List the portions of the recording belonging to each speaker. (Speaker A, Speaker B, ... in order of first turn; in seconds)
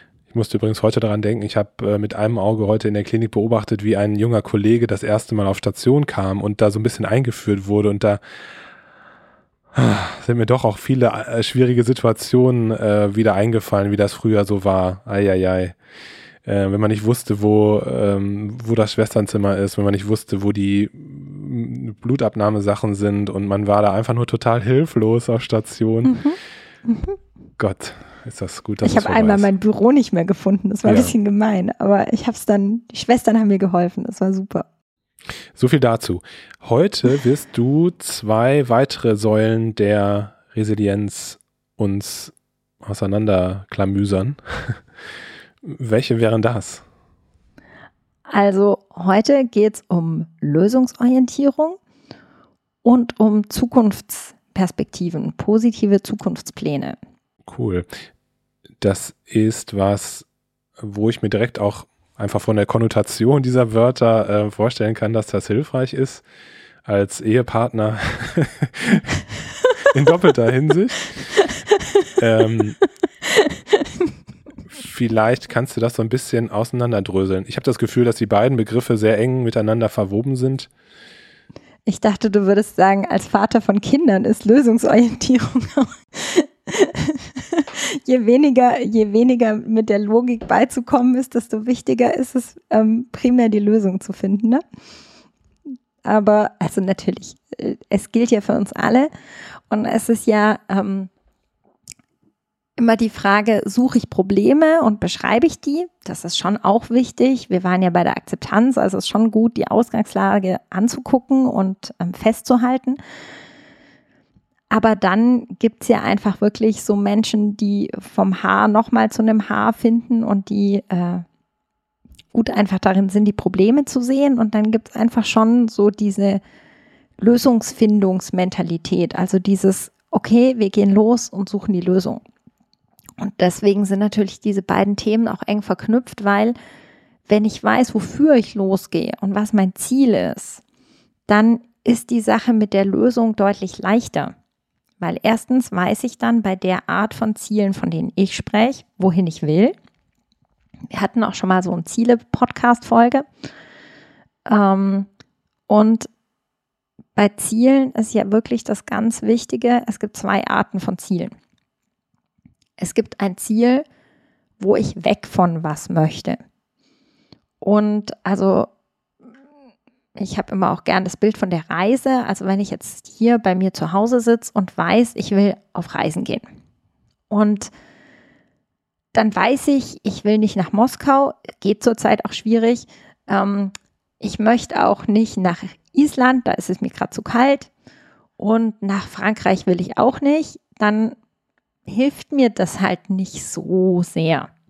Speaker A: 0.3-8.2, 9.7-15.8, 16.4-26.2, 27.6-29.5, 30.9-31.1, 35.5-44.8, 45.6-46.8, 57.5-57.9, 58.8-60.3, 60.8-66.2, 66.9-69.2, 69.9-71.3, 72.2-72.8, 74.7-80.7
Speaker B: 26.0-27.2, 28.8-34.7, 48.3-51.8, 52.8-57.0, 71.4-72.1, 73.3-73.9, 81.9-94.6, 96.0-99.1, 99.7-101.1, 102.8-113.0, 114.7-121.2, 122.3-126.4, 127.2-132.2, 133.2-136.6, 137.3-140.6, 141.3-144.3, 145.0-149.8, 150.9-153.2, 154.5-155.1, 155.7-156.1, 157.2-161.3, 162.8-163.8, 164.6-166.4, 167.6-168.7, 170.2-176.4, 177.3-177.7, 179.1-187.7, 188.4-191.2, 191.9-194.5